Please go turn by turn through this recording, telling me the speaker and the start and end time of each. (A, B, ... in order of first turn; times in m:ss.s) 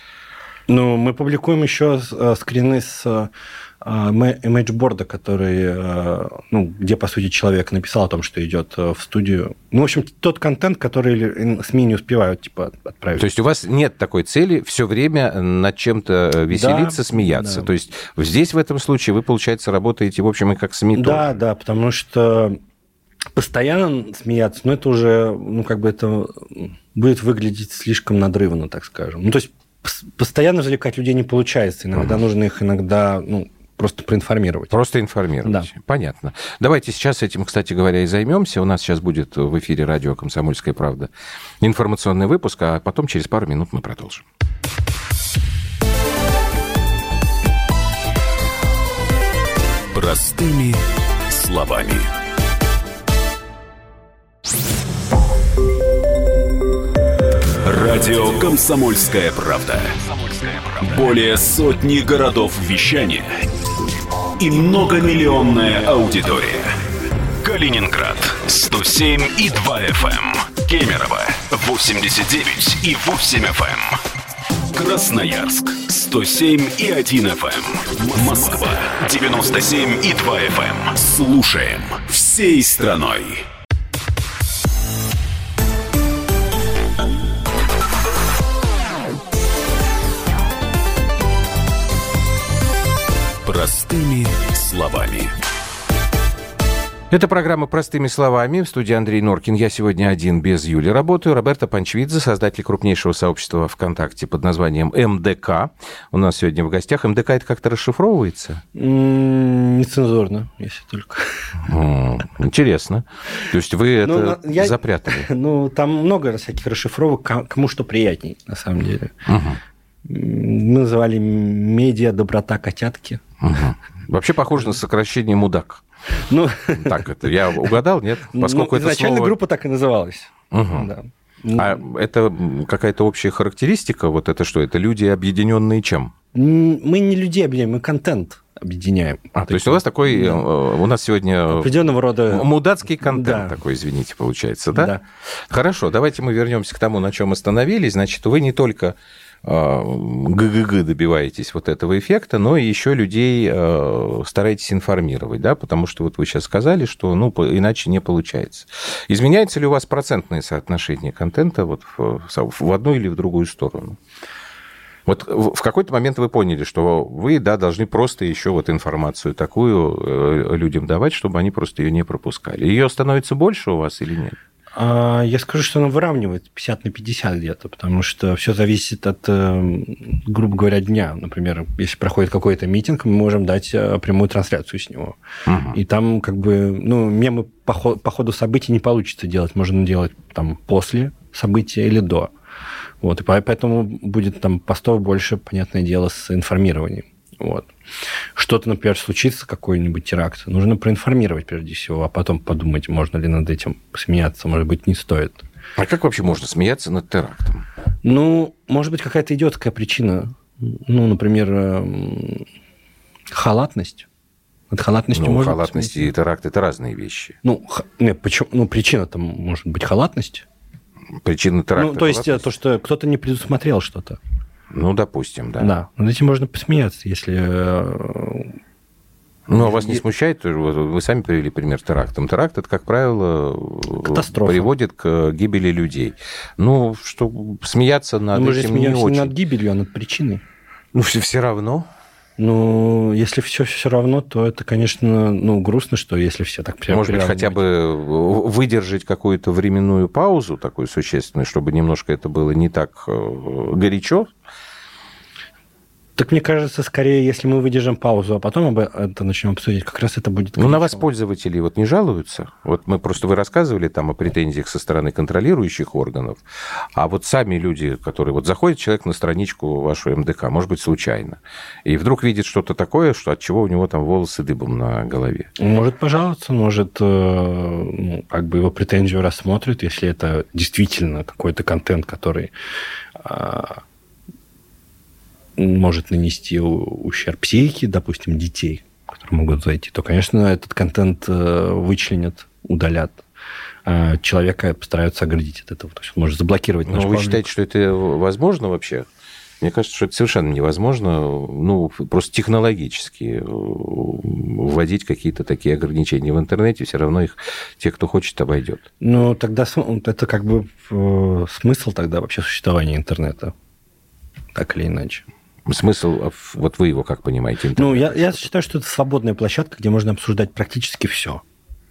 0:00.7-0:13.3 A
0:13.2-0:21.3 B
0:16.5-0:17.7 A
0:20.9-0:22.6 A
0:23.3-0:34.7 A
0:34.7-0:41.1 B
0:41.6-0:44.2 B
0:49.9-0:52.1 C
0:57.6-1:03.4 C
1:04.4-1:06.8 C
1:07.4-1:14.0 C
1:14.7-1:23.4 C
1:33.4-1:35.3 C
1:37.1-1:48.6 B
1:48.7-1:51.5 A
1:51.6-1:55.3 B
1:54.0-1:59.1 A
1:59.2-1:59.6 B
2:00.0-2:03.2 A
2:03.4-2:05.8 B
2:06.1-2:07.7 A
2:06.7-2:09.4 B
2:08.3-2:11.8 A
2:10.5-2:10.9 B
2:11.5-2:16.1 B
2:16.3-2:20.5 A
2:19.3-2:24.9 B
2:21.5-2:23.5 A
2:24.7-2:25.0 A
2:25.5-2:44.0 B
2:45.1-2:54.4 B
2:54.7-3:05.2 A
3:05.5-3:05.8 B
3:05.7-3:12.3 A
3:13.0-3:17.7 A
3:18.4-3:25.4 A
3:25.8-3:27.6 B
3:28.0-3:32.4 A
3:33.3-3:34.0 A
3:34.7-3:36.1 A
3:35.1-3:37.4 B
3:37.4-3:40.4 A
3:41.2-3:42.4 B
3:41.8-3:44.2 A
3:44.7-3:45.7 B
3:45.6-3:48.6 A
3:49.5-3:59.3 B
3:49.6-3:50.0 A
3:54.0-3:54.7 A
3:58.3-4:00.4 A
4:00.9-4:01.9 B
4:02.4-4:07.6 A
4:06.9-4:14.3 B
4:16.2-4:21.0 A
4:20.6-4:26.4 B
4:26.9-4:35.5 B
4:35.6-4:42.5 A
4:43.2-4:43.8 A
4:45.6-4:53.2 A
4:53.8-4:57.4 A
4:56.9-4:59.0 B
4:59.6-5:08.8 B
5:09.0-5:13.5 A
5:14.5-5:15.2 A
5:15.7-5:18.4 B
5:17.8-5:21.4 A